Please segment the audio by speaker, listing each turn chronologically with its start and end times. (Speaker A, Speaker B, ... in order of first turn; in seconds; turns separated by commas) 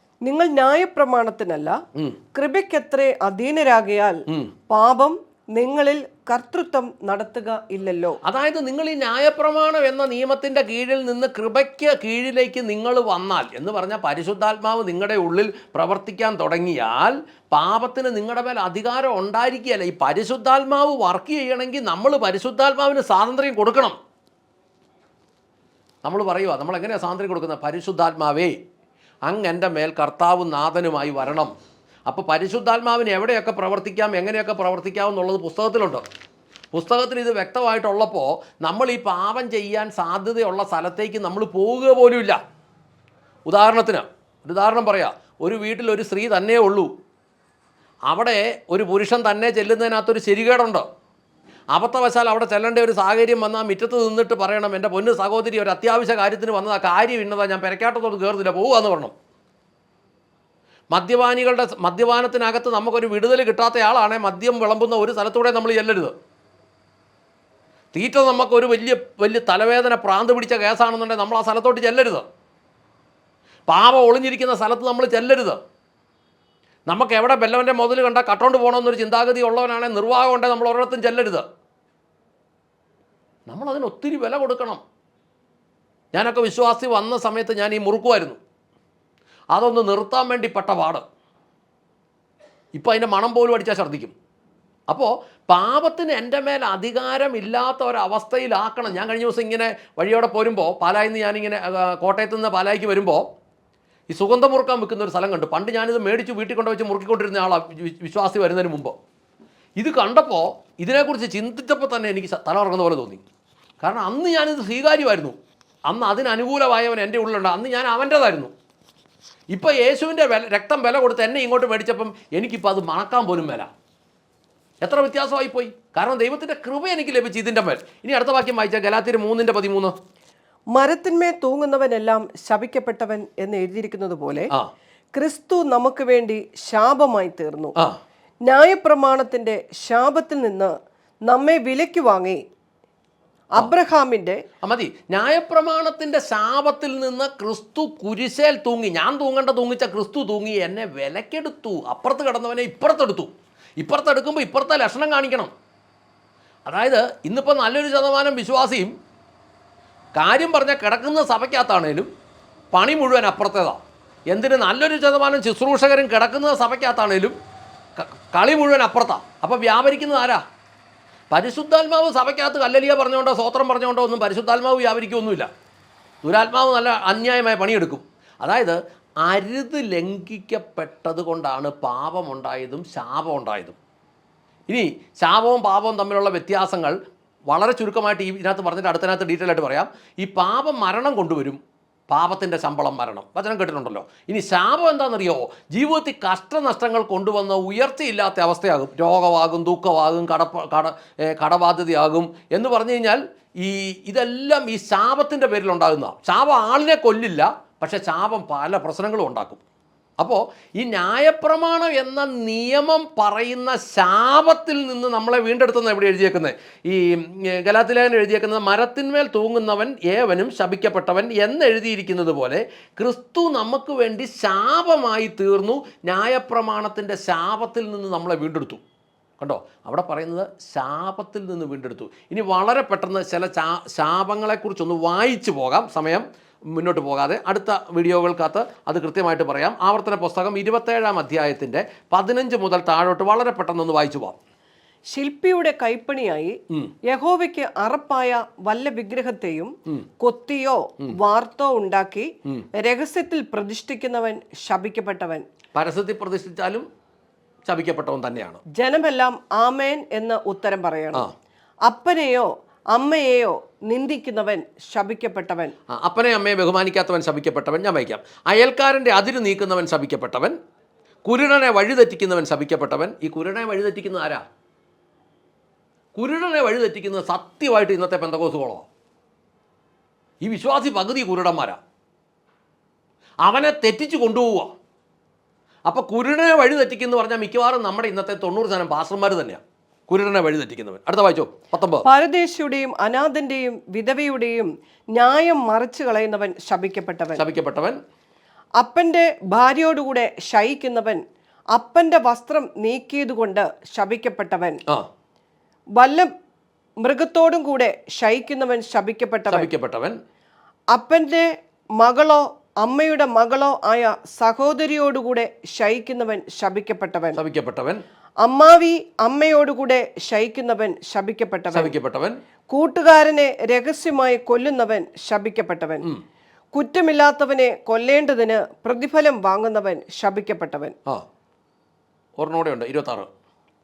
Speaker A: 0.2-1.8, Speaker A: 2.3-8.2, Speaker B: 8.2-23.9, Speaker B: 26.0-28.6, Speaker B: 29.3-31.5, Speaker B: 32.1-36.0, Speaker B: 36.7-42.4, Speaker B: 43.5-46.9, Speaker B: 48.1-50.8, Speaker B: 51.7-59.1, Speaker B: 60.9-66.1, Speaker B: 67.9-72.2, Speaker B: 73.7-75.6, Speaker B: 76.9-81.4, Speaker B: 83.5-84.8, Speaker B: 86.1-88.4, Speaker B: 89.5-91.0, Speaker B: 92.7-94.1, Speaker B: 94.9-103.2, Speaker B: 104.1-109.0, Speaker B: 109.8-113.2, Speaker B: 113.8-115.3, Speaker B: 115.9-118.5, Speaker B: 119.5-123.7, Speaker B: 124.8-129.9, Speaker A: 130.7-134.5, Speaker A: 135.1-137.7, Speaker A: 138.5-140.7, Speaker A: 141.3-142.4, Speaker A: 143.5-144.4, Speaker B: 144.6-155.5, Speaker B: 156.7-158.9, Speaker B: 160.1-162.1, Speaker B: 162.7-163.8, Speaker B: 164.3-167.3, Speaker B: 168.0-170.4, Speaker B: 171.3-175.5, Speaker B: 176.2-183.8, Speaker B: 184.7-187.0, Speaker B: 187.5-209.6, Speaker B: 210.2-228.8, Speaker B: 229.4-244.4, Speaker A: 245.1-246.5, Speaker A: 247.1-255.4, Speaker B: 255.7-256.9, Speaker B: 257.6-258.6, Speaker A: 258.7-261.3, Speaker A: 261.9-265.7, Speaker B: 265.9-270.5, Speaker B: 271.2-274.4, Speaker B: 276.1-278.9, Speaker B: 280.4-281.8, Speaker B: 283.4-284.7, Speaker B: 285.9-292.1, Speaker A: 292.0-297.4, Speaker B: 297.4-298.0, Speaker A: 298.8-301.2, Speaker A: 301.7-304.8, Speaker A: 306.0-306.3, Speaker A: 307.0-309.7, Speaker B: 309.5-310.1, Speaker A: 310.9-311.5, Speaker A: 312.0-317.4, Speaker B: 317.4-318.0, Speaker A: 318.4-321.9, Speaker B: 321.7-322.3, Speaker A: 322.7-326.1, Speaker A: 326.7-330.9, Speaker B: 332.4-333.3